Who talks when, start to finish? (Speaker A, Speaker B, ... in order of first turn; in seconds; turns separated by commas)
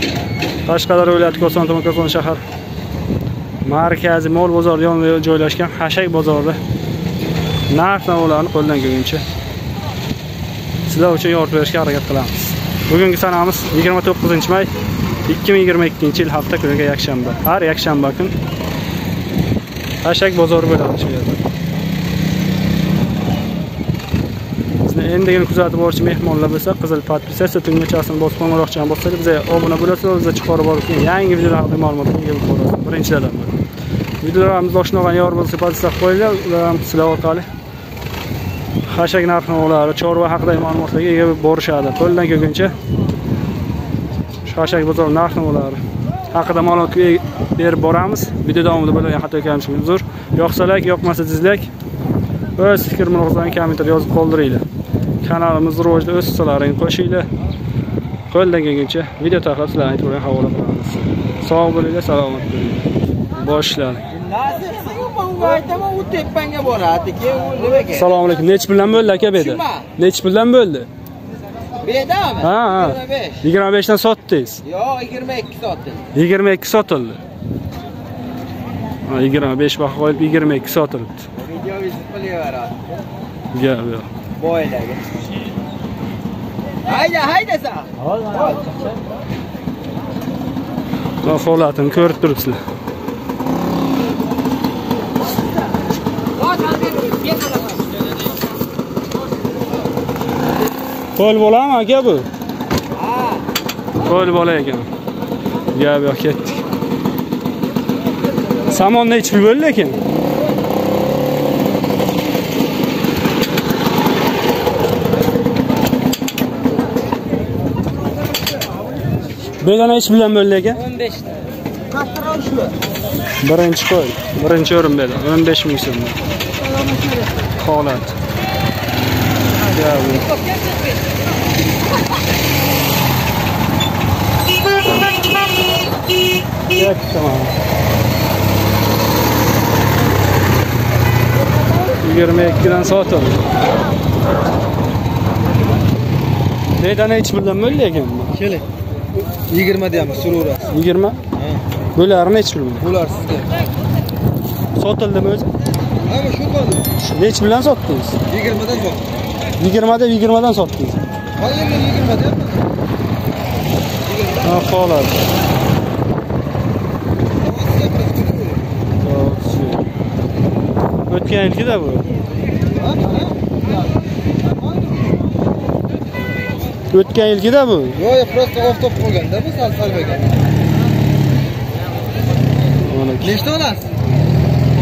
Speaker A: 0.7-2.4, Speaker A: 3.6-6.6, Speaker A: 7.7-9.2, Speaker A: 10.9-14.7, Speaker A: 15.3-18.4, Speaker A: 20.0-21.4, Speaker A: 24.8-33.6, Speaker A: 34.2-37.5, Speaker A: 38.9-42.8, Speaker A: 44.5-51.7, Speaker A: 52.6-54.6, Speaker A: 55.2-57.3, Speaker A: 58.3-64.0, Speaker B: 64.1-68.0, Speaker A: 67.9-70.9, Speaker B: 71.8-73.4, Speaker A: 72.4-74.6, Speaker B: 74.7-76.0, Speaker A: 76.1-77.2, Speaker A: 79.1-81.3, Speaker B: 81.4-82.8, Speaker A: 83.5-84.1, Speaker B: 84.4-85.0, Speaker B: 86.8-88.7, Speaker A: 91.2-92.6, Speaker B: 96.6-97.5, Speaker A: 101.2-102.3, Speaker B: 103.0-103.4, Speaker A: 104.0-104.9, Speaker A: 105.7-106.6, Speaker A: 108.7-110.0, Speaker A: 119.6-120.9, Speaker B: 121.9-122.7, Speaker A: 123.4-126.2, Speaker B: 126.9-127.2, Speaker A: 127.6-128.2, Speaker A: 129.7-130.3, Speaker A: 136.7-137.5, Speaker A: 142.0-143.4, Speaker A: 146.8-148.5, Speaker B: 149.5-150.7, Speaker A: 150.7-151.2, Speaker A: 151.9-152.9, Speaker B: 152.9-153.5, Speaker A: 154.8-155.5, Speaker B: 156.0-156.8, Speaker A: 157.0-158.2, Speaker B: 158.3-159.0, Speaker A: 159.6-161.0, Speaker B: 161.4-162.6, Speaker A: 164.4-165.2, Speaker B: 167.4-168.6, Speaker A: 169.0-169.9, Speaker A: 171.1-172.2, Speaker B: 172.8-173.5, Speaker A: 176.9-178.1, Speaker B: 178.0-180.4, Speaker A: 182.8-183.4, Speaker B: 183.3-183.8